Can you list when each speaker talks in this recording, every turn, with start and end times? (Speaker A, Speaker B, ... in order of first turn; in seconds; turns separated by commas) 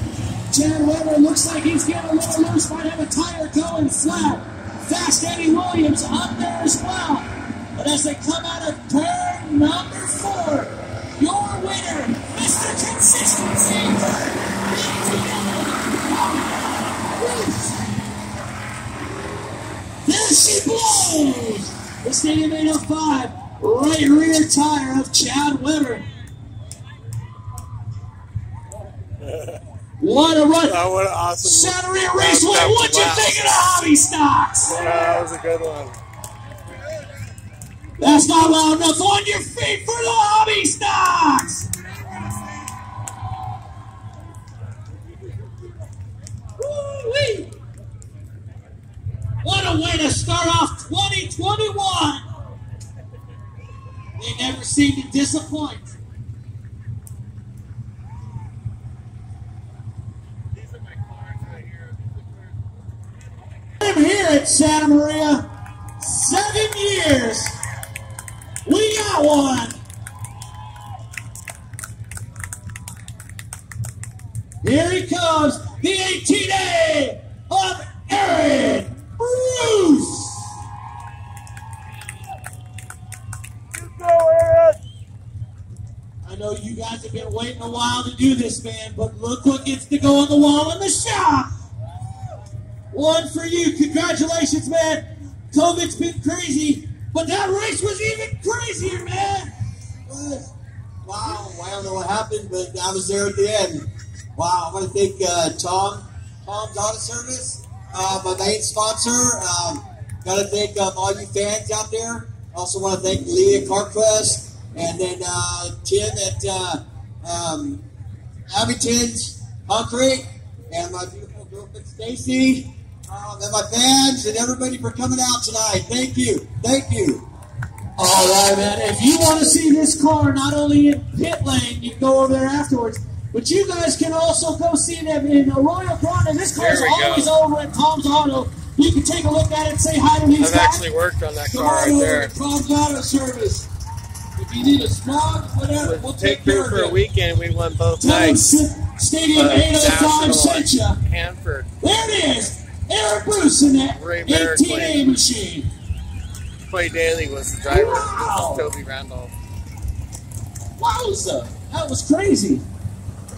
Speaker A: 0.5-17.8, Speaker A: 20.1-26.1, Speaker A: 30.0-30.8, Speaker B: 30.6-33.8, Speaker A: 31.4-34.9, Speaker B: 34.7-36.0, Speaker A: 38.0-41.7, Speaker A: 46.6-47.5, Speaker A: 49.4-52.2, Speaker A: 54.2-55.9, Speaker B: 60.5-62.3, Speaker A: 63.8-65.5, Speaker A: 66.0-67.6, Speaker A: 68.7-69.8, Speaker A: 74.6-80.5, Speaker B: 83.9-84.8, Speaker A: 86.2-91.5, Speaker A: 92.9-99.5, Speaker C: 100.2-100.5, Speaker C: 101.1-103.8, Speaker A: 102.4-103.2, Speaker C: 104.4-117.8, Speaker A: 106.5-106.9, Speaker A: 107.9-108.3, Speaker A: 112.5-112.8, Speaker A: 114.8-116.4, Speaker A: 117.2-117.7, Speaker C: 118.6-122.7, Speaker A: 120.8-122.4, Speaker A: 123.1-123.5, Speaker C: 123.2-127.2, Speaker A: 124.2-127.2, Speaker A: 128.0-140.8, Speaker B: 136.6-137.3, Speaker B: 140.4-142.3, Speaker A: 141.5-143.7, Speaker A: 144.4-147.0, Speaker B: 145.8-148.4, Speaker A: 148.0-151.0, Speaker B: 149.4-151.7, Speaker A: 151.8-155.7, Speaker B: 153.9-155.0, Speaker B: 156.7-159.3, Speaker A: 157.7-158.7, Speaker A: 160.8-162.7